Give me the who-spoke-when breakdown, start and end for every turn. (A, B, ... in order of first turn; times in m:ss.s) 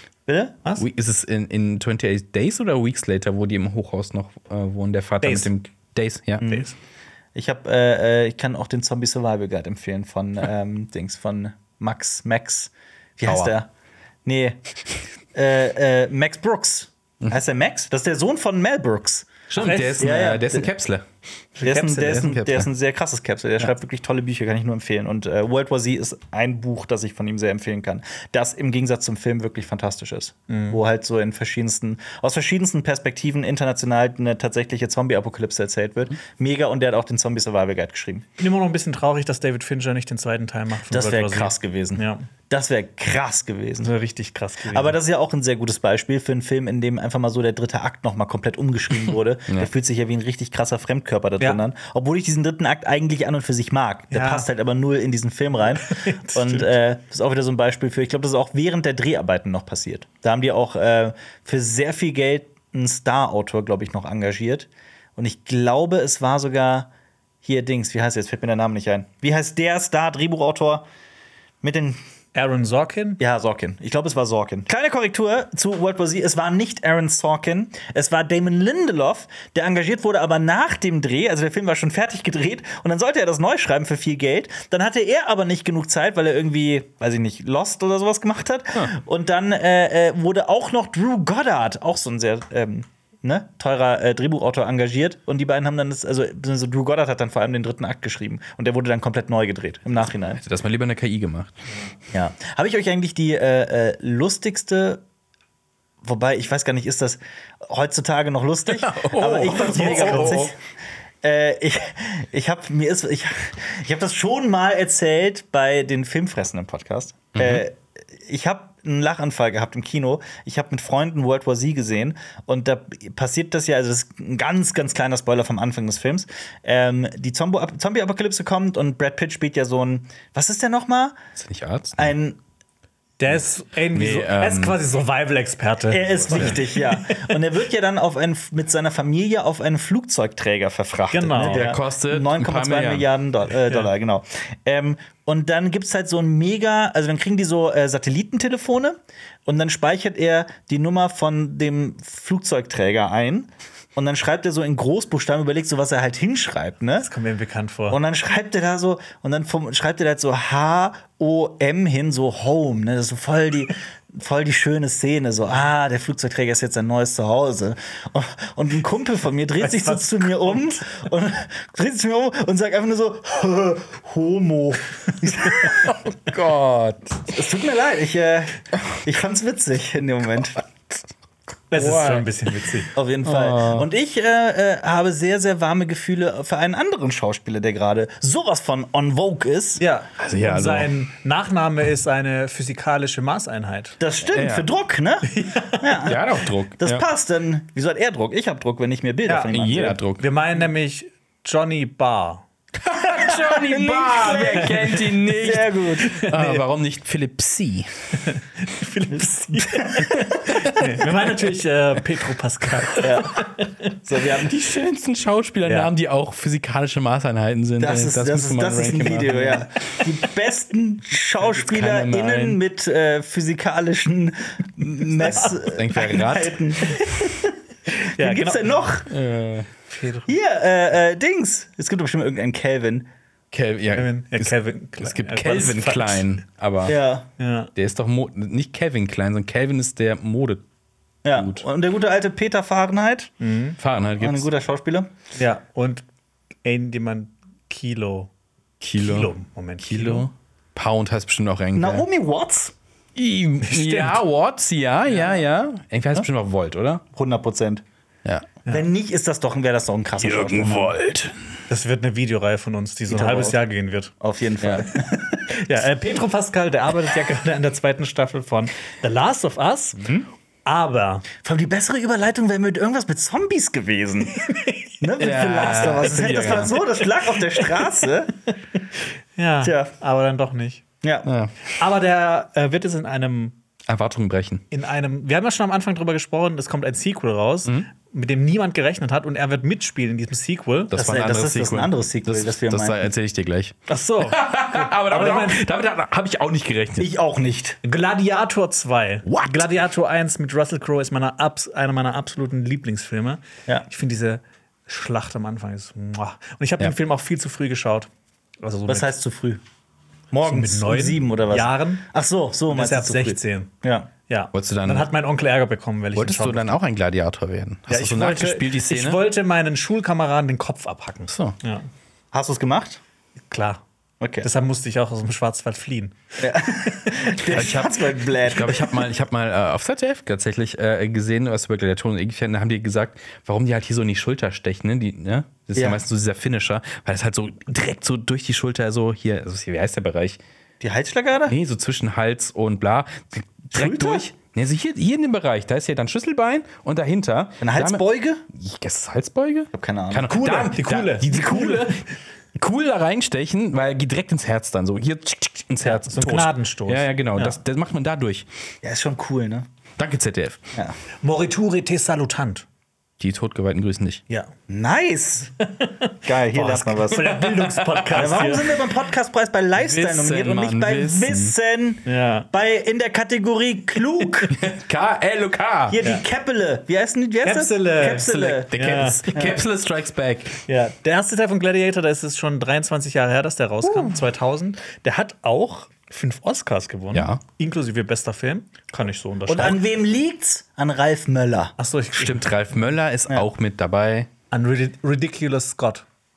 0:00.3-0:00.6 A
0:00.8-0:06.4 B
0:05.2-0:05.5 C
0:06.4-0:06.7 A
0:06.4-0:06.7 C
0:07.3-0:13.7 A
0:13.2-0:13.5 B
0:14.2-0:14.6 A
0:15.3-0:19.3 A
0:19.5-0:21.0 B
0:19.6-0:20.1 C
0:20.0-0:20.7 A
0:21.6-0:22.3 C
0:21.6-0:38.2 A
0:22.2-0:22.7 B
0:30.5-0:30.8 C
0:38.4-0:42.2 C
0:40.9-0:43.9 A
0:43.8-0:45.0 C
0:44.7-1:06.9 A
0:54.1-0:54.4 C
0:55.9-0:56.7 C
1:07.4-1:10.8 A
1:11.6-1:12.0 A
1:12.3-1:13.2 C
1:13.2-1:40.4 A
1:40.3-1:41.5 B
1:42.1-1:45.0 A
1:46.0-1:50.6 A
1:48.7-1:50.5 B
1:49.6-1:50.5 C
1:51.2-2:11.2 A
1:57.3-1:57.6 B
2:11.4-2:12.1 B
2:12.0-2:12.4 A
2:13.2-2:17.3 C
2:13.9-2:14.8 B
2:15.9-2:37.1 A
2:21.1-2:21.7 C
2:21.4-2:23.1 B
2:37.0-2:38.0 C
2:37.9-2:55.9 A
2:49.6-2:50.8 C
2:55.7-2:57.2 B
2:57.3-3:00.6 A
3:01.7-3:02.9 C
3:01.8-3:02.3 B
3:02.9-3:09.8 A
3:03.2-3:03.9 B
3:09.8-3:14.0 C
3:10.2-3:10.9 B
3:14.0-3:16.2 A
3:14.3-3:14.7 B
3:15.3-3:16.1 C
3:16.0-3:17.0 B
3:16.8-3:20.0 A
3:19.3-3:19.5 C
3:19.5-3:20.3 B
3:20.2-3:22.4 C
3:22.8-3:27.9 B
3:23.0-3:26.2 A
3:26.1-3:26.6 C
3:28.3-3:33.7 C
3:29.8-3:30.4 A
3:33.0-3:33.5 A
3:34.1-3:34.4 A
3:34.1-3:39.7 B
3:35.6-3:35.9 C
3:37.8-3:49.1 A
3:41.5-3:42.6 B
3:45.6-3:46.6 B
3:48.2-3:48.9 C
3:49.1-3:49.7 B
3:49.9-3:50.3 C
3:50.3-3:53.1 A
3:53.5-3:57.0 B
3:53.9-3:56.3 C
3:56.8-3:57.2 A
3:57.4-3:57.7 C
3:57.8-4:00.6 B
4:01.2-4:03.3 A
4:01.3-4:01.6 B
4:03.4-4:03.8 C
4:03.8-4:04.5 B
4:04.2-4:05.1 A
4:05.4-4:06.0 C
4:06.6-4:08.3 C
4:08.8-4:12.1 B
4:09.0-4:10.3 C
4:11.8-4:12.7 A
4:13.2-4:17.0 B
4:13.6-4:14.2 C
4:15.1-4:15.4 C
4:17.1-4:17.8 A
4:18.7-4:20.9 A
4:20.2-4:21.4 B
4:21.7-4:24.1 C
4:23.1-4:23.6 A
4:24.2-4:25.5 A
4:25.5-4:30.0 C
4:30.6-4:31.2 C
4:31.4-4:38.4 A
4:35.2-4:36.8 B
4:35.6-4:37.9 C
4:39.4-4:40.8 C
4:39.6-4:39.9 A
4:41.0-4:41.3 A
4:41.2-4:41.5 B
4:41.8-4:43.5 C
4:43.9-4:44.6 B
4:44.7-4:50.9 C
4:50.9-4:57.1 B
4:50.9-4:53.1 A
4:53.9-4:55.6 C
4:57.0-4:57.8 A
4:57.8-5:08.1 C
4:59.2-4:59.7 B
5:08.6-5:09.1 C
5:08.9-5:09.6 A
5:10.3-5:14.1 A
5:10.4-5:12.1 C
5:12.7-5:13.7 C
5:14.3-5:16.8 C
5:14.5-5:15.1 B
5:16.1-5:19.2 B
5:17.9-5:21.8 C
5:21.3-5:21.6 B
5:22.3-5:23.0 A
5:23.5-5:23.8 C
5:24.2-5:24.5 A
5:24.4-5:27.2 C
5:26.4-5:29.0 A
5:27.5-5:40.4 B
5:35.7-5:36.0 A
5:40.8-5:41.5 A
5:41.5-5:52.0 B
5:43.7-5:44.3 A
5:47.6-5:48.4 A
5:49.7-5:50.4 A
5:50.3-5:52.0 C
5:52.5-5:58.5 B
5:55.8-5:57.6 C
5:58.8-5:59.6 A
6:00.0-6:00.6 B
6:01.2-6:02.6 C
6:03.2-6:04.2 B
6:04.7-6:05.5 A
6:05.7-6:08.8 C
6:06.2-6:07.3 A
6:07.2-6:08.5 B
6:08.1-6:14.6 A
6:09.8-6:11.5 B
6:12.0-6:12.5 C
6:14.5-6:16.0 B
6:15.9-6:18.7 A
6:17.4-6:19.3 C
6:18.2-6:20.6 B
6:19.3-6:19.6 A
6:20.7-6:29.8 C
6:27.1-6:27.4 B
6:29.5-6:31.7 A
6:31.8-6:32.6 C
6:32.2-6:34.3 B
6:34.5-6:36.0 C